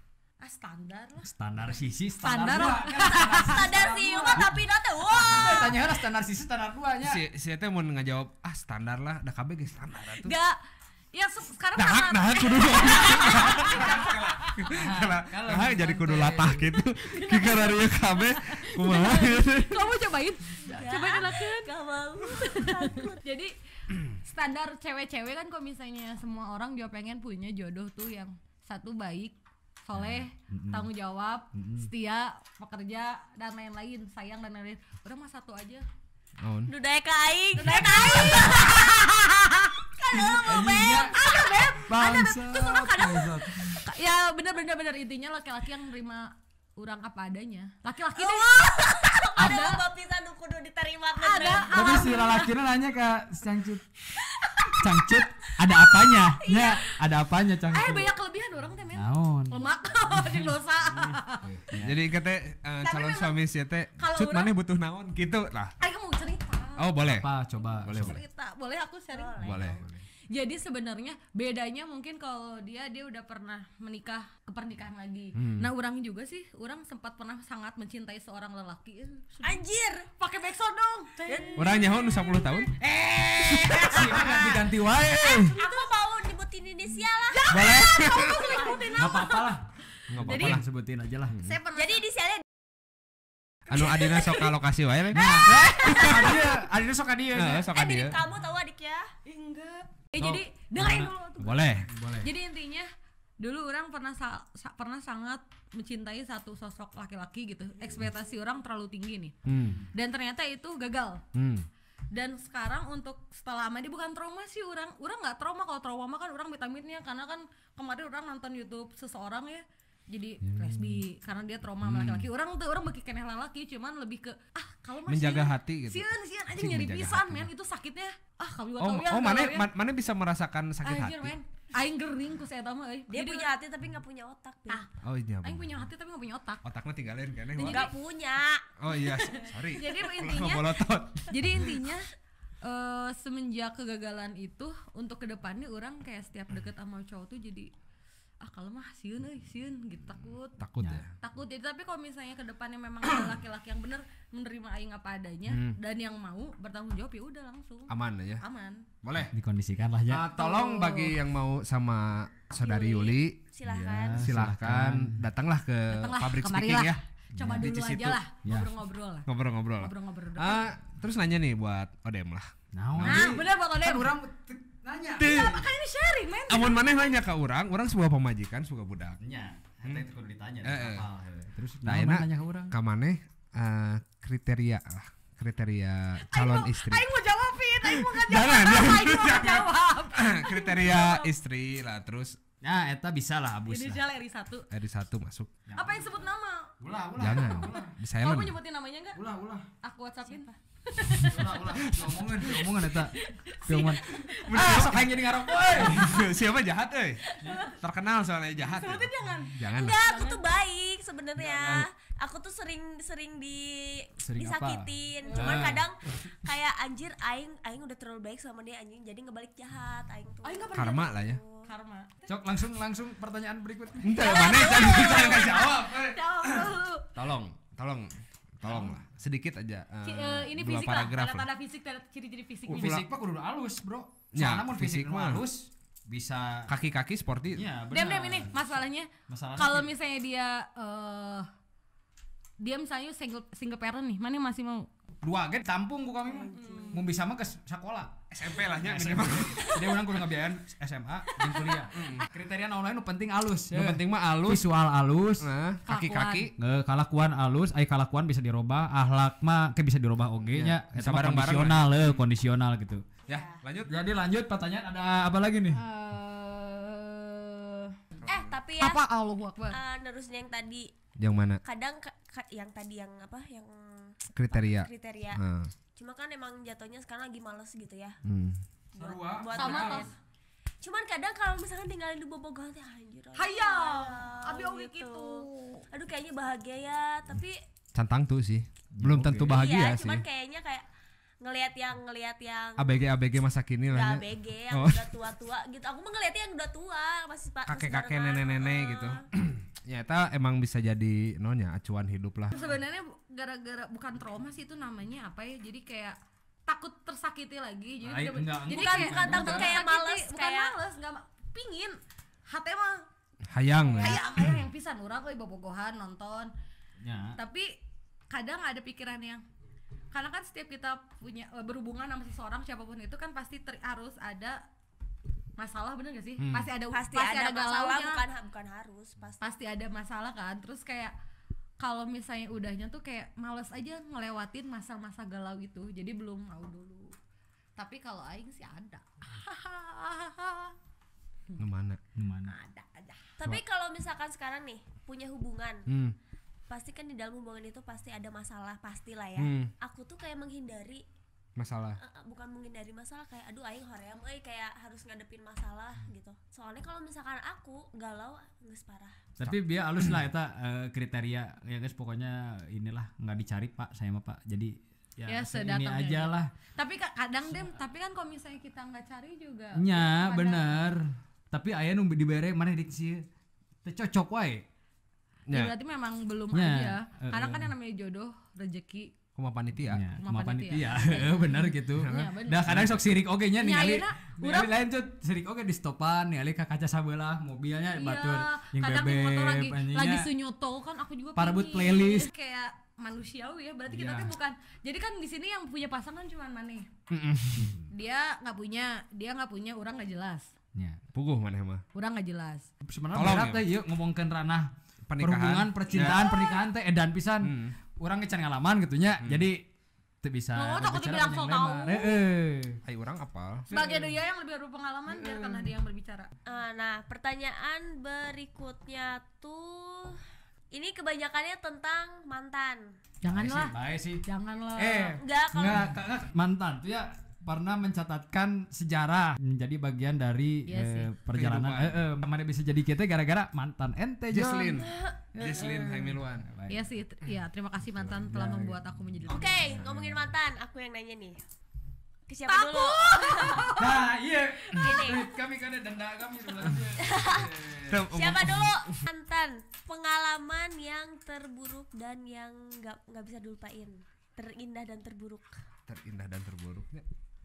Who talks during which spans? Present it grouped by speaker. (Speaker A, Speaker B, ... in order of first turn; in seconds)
Speaker A: 0.4-1.3, 2.2-4.4, 10.2-10.6, 11.1-14.7, 16.8-21.7, 22.3-23.5, 24.1-35.9, 37.6-40.4, 41.1-49.8, 51.2-52.5, 57.7-61.5, 62.8-63.4, 64.0-64.5, 65.8-66.9, 67.8-79.6, 80.2-81.9, 82.8-84.7, 85.3-85.9, 87.3-89.6, 90.2-90.6, 91.4-92.0, 99.2-101.6, 102.2-102.9, 103.4-109.4, 109.9-111.2, 112.1-129.7, 130.8-133.5, 135.4-136.6, 137.6-137.9, 138.9-140.8, 141.3-142.1, 142.6-147.7, 148.4-150.6, 151.2-158.8, 160.4-161.2, 165.9-169.3, 169.8-170.7, 173.0-174.2, 175.2-177.1, 186.3-191.3, 193.7-194.7, 195.8-196.7, 197.3-199.2, 199.8-201.6, 202.5-204.9, 205.6-206.1, 207.3-207.8, 208.7-210.4, 215.3-215.7, 220.4-221.1, 221.7-222.2, 224.2-227.1, 230.0-233.0, 237.9-241.5, 242.6-244.9, 246.5-247.0, 251.7-252.2, 255.9-256.5, 265.7-267.9, 268.8-269.8, 279.5-280.1, 283.4-285.9, 302.5-312.0, 312.5-313.1, 313.9-316.5, 317.4-317.7, 318.3-319.4, 320.1-324.6, 325.6-328.2, 329.4-331.1, 331.8-337.1, 337.8-340.8, 342.5-343.3, 365.3-370.8, 375.5-379.1, 380.2-382.7, 383.6-384.7, 388.0-396.9, 397.9-400.5, 401.9-402.7, 406.0-406.6, 410.6-412.2, 413.7-416.3, 423.2-425.2, 430.7-431.1, 435.4-435.8, 436.7-439.7, 442.5-444.1, 444.7-445.1
Speaker B: 1.2-4.5, 5.1-7.2, 13.8-14.1, 14.7-16.6, 29.9-30.9, 31.6-31.9, 40.1-41.2, 41.9-43.8, 51.7-53.9, 54.8-58.1, 58.9-60.6, 61.5-62.0, 67.0-68.2, 83.7-85.5, 87.6-87.8, 89.0-91.4, 95.1-97.7, 100.2-102.2, 159.3-160.2, 163.7-165.2, 167.3-167.7, 168.4-168.7, 172.7-175.7, 179.2-182.7, 192.6-194.0, 195.7-196.1, 196.8-197.9, 199.1-199.7, 201.2-203.1, 203.7-206.2, 211.4-211.8, 214.2-215.9, 222.3-224.2, 228.7-229.0, 232.7-236.7, 237.5-239.9, 245.2-248.2, 248.7-255.5, 256.6-263.1, 263.9-265.8, 279.0-280.1, 289.0-289.6, 308.0-309.7, 317.0-317.4, 342.2-342.5, 359.4-366.5, 369.8-373.2, 373.8-374.7, 376.5-377.7, 379.9-390.3, 391.4-392.3, 393.9-394.3, 397.6-397.8, 400.8-401.0, 402.9-409.6, 410.2-412.8, 413.7-414.1, 415.2-415.6, 423.3-424.2, 424.8-436.9, 438.3-438.8, 443.8-448.0
Speaker C: 3.0-5.8, 20.7-23.2, 36.7-39.2, 40.0-41.8, 48.2-52.2, 56.2-56.9, 69.1-69.8, 79.4-80.1, 81.3-82.4, 85.3-87.6, 88.3-89.3, 91.8-92.5, 94.0-94.3, 97.7-99.1, 133.1-134.8, 137.6-138.7, 162.6-164.3, 209.6-221.7, 224.3-225.7, 246.3-247.1, 263.3-263.6, 268.2-269.0, 269.7-270.9, 271.6-275.4, 276.0-278.2, 278.9-280.1, 280.8-287.6, 289.5-290.9, 291.4-293.0, 293.9-299.2, 308.7-310.7, 326.9-329.4, 343.4-345.9, 346.7-351.0, 352.0-359.2, 416.5-420.2, 420.7-422.9, 425.2-426.0, 434.7-435.2, 439.3-441.4, 442.3-443.7, 444.8-445.3, 447.0-455.5
Speaker D: 5.2-5.7, 7.0-10.3, 11.8-19.9, 36.4-36.7, 61.7-65.7, 66.8-68.2, 69.4-70.0, 75.3-75.7, 81.6-82.8, 83.4-84.3, 87.5-88.5, 90.1-90.6, 91.3-91.6, 93.7-96.5, 97.3-98.3, 101.4-102.2, 109.5-109.8, 111.3-111.7, 120.5-121.0, 121.8-122.3, 125.1-127.5, 128.8-131.3, 135.0-135.9, 136.6-137.9, 138.8-141.7, 150.6-151.1, 155.5-155.8, 157.9-158.4, 159.0-159.3, 160.1-163.4, 164.1-168.2, 169.3-173.4, 175.2-175.6, 176.5-179.2, 180.6-181.1, 181.8-187.1, 187.8-192.4, 194.7-195.5, 197.2-198.6, 204.5-207.2, 207.8-210.0, 220.7-221.4, 224.0-231.5, 232.7-233.1, 234.3-235.4, 236.7-237.7, 248.3-249.8, 251.9-252.3, 253.7-254.7, 255.4-256.5, 260.5-262.2, 263.3-264.0, 268.2-268.6, 271.2-271.6, 274.4-275.7, 278.2-278.6, 287.9-290.2, 292.8-295.1, 297.7-302.6, 313.5-314.6, 326.4-326.7, 341.6-342.0, 345.9-346.1, 349.4-349.7, 351.6-352.0, 359.4-360.1, 375.5-375.7, 379.4-380.0, 382.0-383.1, 397.1-397.7, 401.1-401.8, 403.1-403.7, 405.1-406.3, 407.4-407.8, 409.2-409.5, 412.9-413.7, 431.3-432.1, 434.3-436.5, 447.9-449.0, 455.9-457.1